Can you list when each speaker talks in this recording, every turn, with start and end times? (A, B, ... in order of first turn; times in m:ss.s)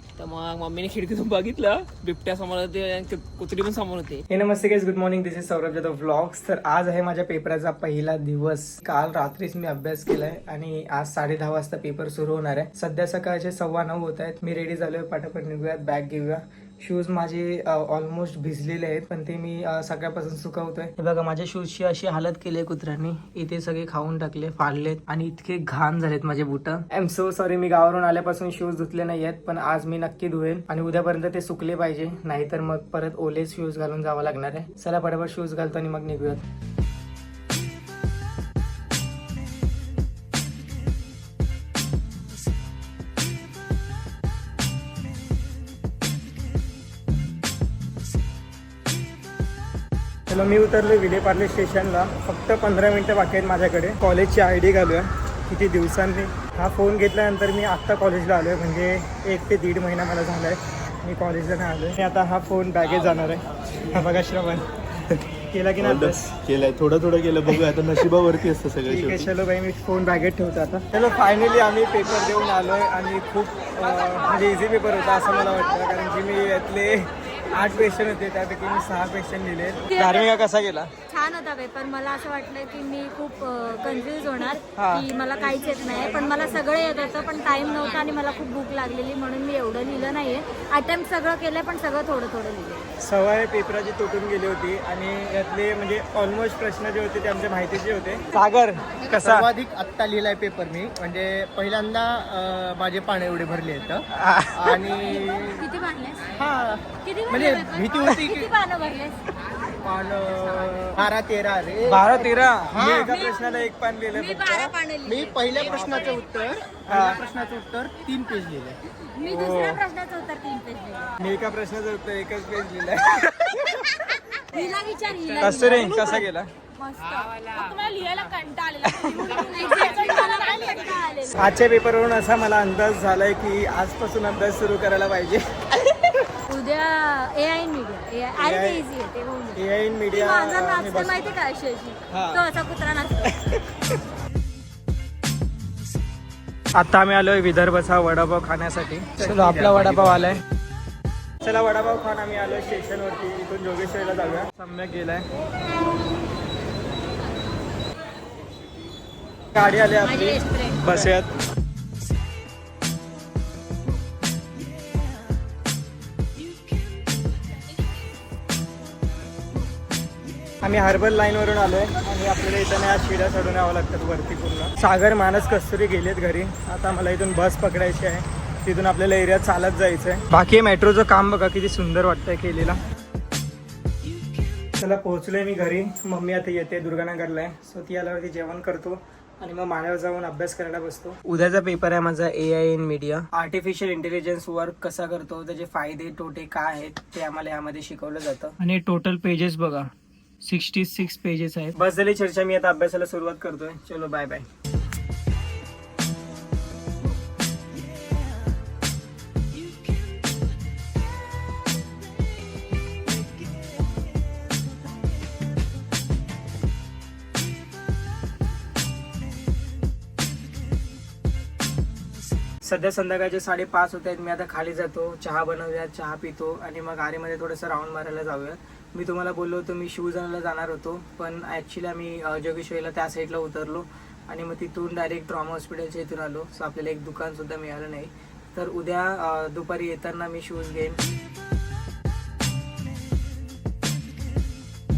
0:00.2-0:04.2 A
0:04.3-0:36.4 B
0:50.3-1:06.4 B
1:05.8-1:09.3 C
1:08.9-1:20.9 B
1:20.0-1:20.2 D
1:21.1-1:32.8 D
1:24.8-1:25.1 B
1:33.0-1:39.5 B
1:39.1-1:45.6 E
1:44.1-1:44.9 B
1:45.0-1:46.3 D
1:46.3-1:48.5 E
1:47.0-1:49.2 D
1:49.8-1:53.3 E
1:51.8-1:54.7 B
1:53.3-1:56.2 D
1:55.0-1:58.8 E
1:55.6-1:56.1 B
1:56.9-1:57.2 B
1:59.1-2:01.1 D
1:59.2-1:59.8 B
2:01.2-2:04.0 B
2:04.3-2:11.4 D
2:05.4-2:06.5 B
2:09.0-2:09.4 B
2:11.3-2:16.1 B
2:16.5-2:23.4 D
2:18.4-2:18.9 B
2:19.6-2:21.3 B
2:22.1-2:22.4 B
2:26.8-2:30.4 B
2:29.2-2:29.9 D
2:31.4-2:35.3 B
2:39.5-2:41.3 B
2:40.1-2:40.9 D
2:50.6-3:02.8 B
3:04.7-3:19.9 B
3:20.4-3:24.5 B
3:42.6-4:01.0 B